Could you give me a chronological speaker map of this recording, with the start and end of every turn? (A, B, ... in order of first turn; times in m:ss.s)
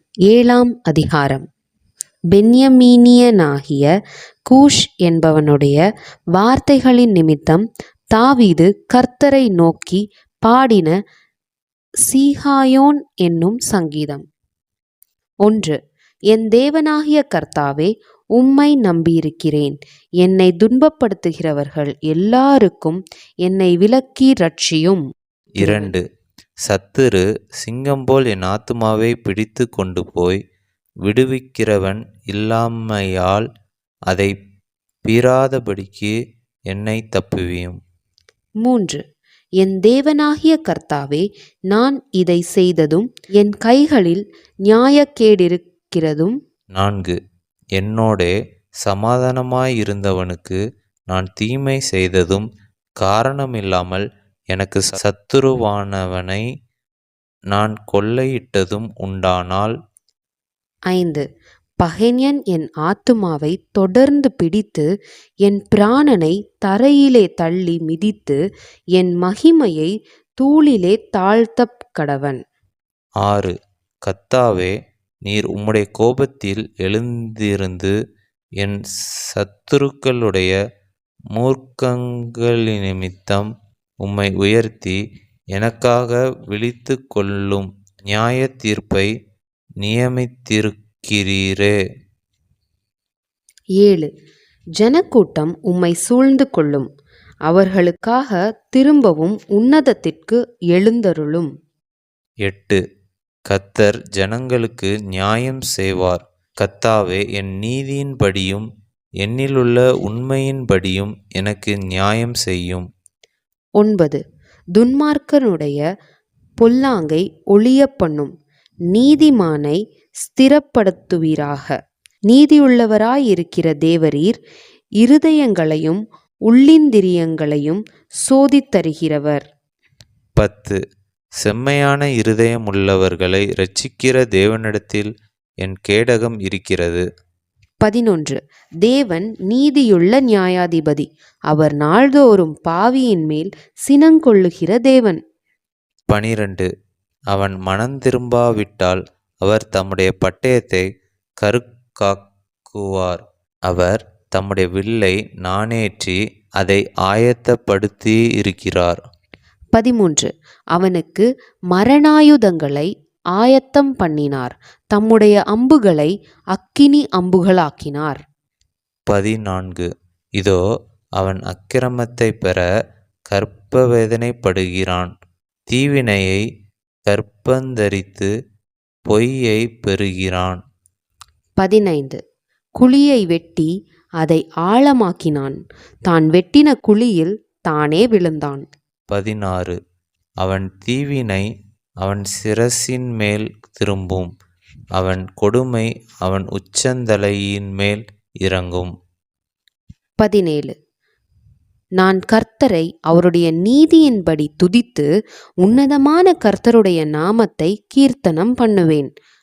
0:00.3-0:01.4 A
0:02.3-0:03.9 A
0:04.5-0:05.8 A
0:06.4-0:07.6 A
0:08.1-0:10.9 A
0:12.0-0:14.2 A
0:15.4-0:15.8 A
0:16.3-0:25.0 A
0:25.6-0:26.0 B
0:25.6-0:25.9 A
0:26.6-0:30.4 B
0:31.0-0:33.4 B
0:35.0-0:36.1 B
0:36.7-0:37.8 B
0:38.6-0:39.0 A
0:39.6-0:46.4 A
0:46.8-0:47.2 B
0:47.8-0:50.6 B
0:51.1-0:52.4 B
0:53.0-0:56.4 B
0:57.5-0:59.7 B
1:00.9-1:01.2 A
1:01.8-1:04.9 A
1:05.4-1:08.4 A
1:09.0-1:12.4 A
1:13.2-1:13.5 B
1:14.1-1:14.7 B
1:15.2-1:17.9 B
1:19.3-1:20.5 B
1:21.3-1:23.5 B
1:24.0-1:25.0 B
1:25.6-1:29.1 B
1:29.8-1:31.7 B
1:33.8-1:34.1 A
1:34.8-1:36.9 A
1:37.5-1:41.5 A
1:42.4-1:42.8 B
1:43.5-1:48.6 B
1:49.2-1:52.8 B
1:53.8-1:54.2 A
1:54.8-1:55.8 A
1:56.6-1:58.3 A
1:58.9-2:01.8 A
2:02.3-2:04.4 A
2:05.0-2:09.5 A
2:10.4-2:10.8 B
2:11.4-2:15.1 B
2:15.6-2:17.0 B
2:17.8-2:25.2 A
2:26.1-2:26.7 B
2:27.3-2:30.8 B
2:31.4-2:39.0 B
2:39.7-2:48.2 A
2:49.1-2:49.9 B
2:51.2-2:52.6 B
2:53.3-2:55.1 B
2:55.7-2:56.4 B
2:57.1-2:58.3 B
2:59.1-3:00.6 B
3:01.6-3:02.2 A
3:02.8-3:03.7 A
3:04.2-3:05.6 A
3:06.1-3:08.6 A
3:09.1-3:09.8 B
3:10.4-3:11.4 B
3:12.0-3:14.3 B
3:15.0-3:18.9 B
3:20.2-3:20.7 A
3:22.0-3:25.1 A
3:25.6-3:29.1 A